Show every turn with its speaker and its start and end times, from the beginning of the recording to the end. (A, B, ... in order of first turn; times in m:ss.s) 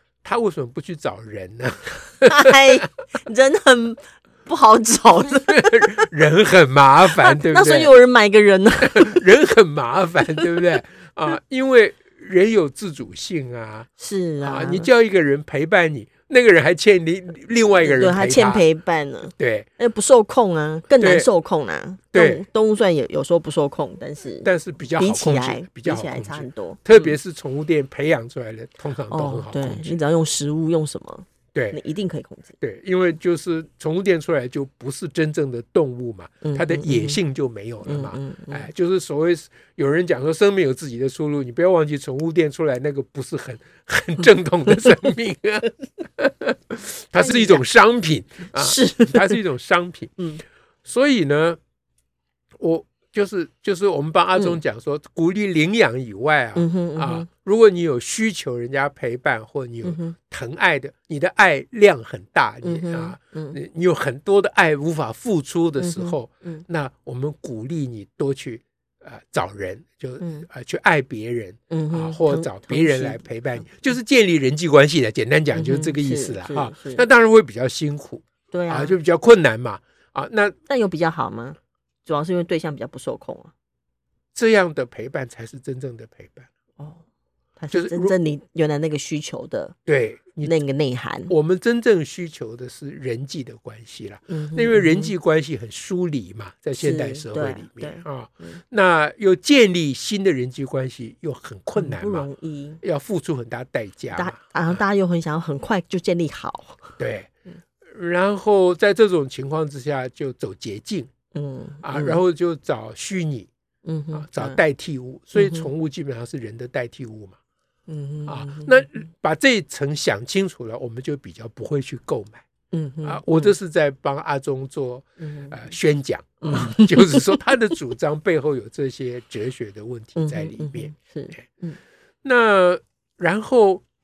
0:00.2-0:02.8 A
0:02.2-0:06.1 B
0:05.5-0:07.9 A
0:07.2-0:09.2 B
0:08.8-0:13.9 A
0:14.0-0:14.9 B
0:14.4-0:18.6 A
0:17.8-0:27.2 B
0:19.3-0:19.7 A
0:21.0-0:21.3 A
0:22.1-0:22.4 A
0:24.4-0:30.0 A
0:29.1-0:32.5 B
0:32.6-0:50.2 A
0:36.4-0:37.2 B
0:37.8-0:38.7 B
0:47.2-0:47.6 B
0:48.6-0:49.4 B
0:50.8-0:51.6 A
0:52.6-1:20.6 A
0:54.3-0:54.6 B
0:56.6-0:57.3 B
0:59.8-1:00.2 B
1:02.6-1:03.6 B
1:05.8-1:06.6 B
1:10.2-1:10.5 B
1:11.7-1:13.9 B
1:15.5-1:17.0 B
1:18.5-1:19.0 B
1:20.7-1:23.5 B
1:24.4-1:26.5 A
1:26.8-1:27.0 B
1:27.6-1:29.8 B
1:27.7-1:28.2 A
1:29.9-1:30.6 A
1:30.4-1:31.3 B
1:31.3-1:42.3 A
1:34.3-1:35.1 B
1:36.8-1:38.6 B
1:41.8-1:42.8 B
1:42.8-1:44.8 A
1:44.1-1:47.0 B
1:47.0-1:47.3 A
1:47.9-1:51.1 A
1:51.3-1:52.2 B
1:51.8-1:53.5 A
1:53.8-1:54.6 B
1:54.1-1:57.4 A
1:55.4-1:55.7 B
1:57.9-1:58.9 B
1:58.3-2:02.4 A
2:02.7-2:03.5 B
2:03.0-2:11.4 A
2:05.2-2:05.6 B
2:06.4-2:07.5 B
2:10.2-2:11.8 B
2:12.2-2:13.8 A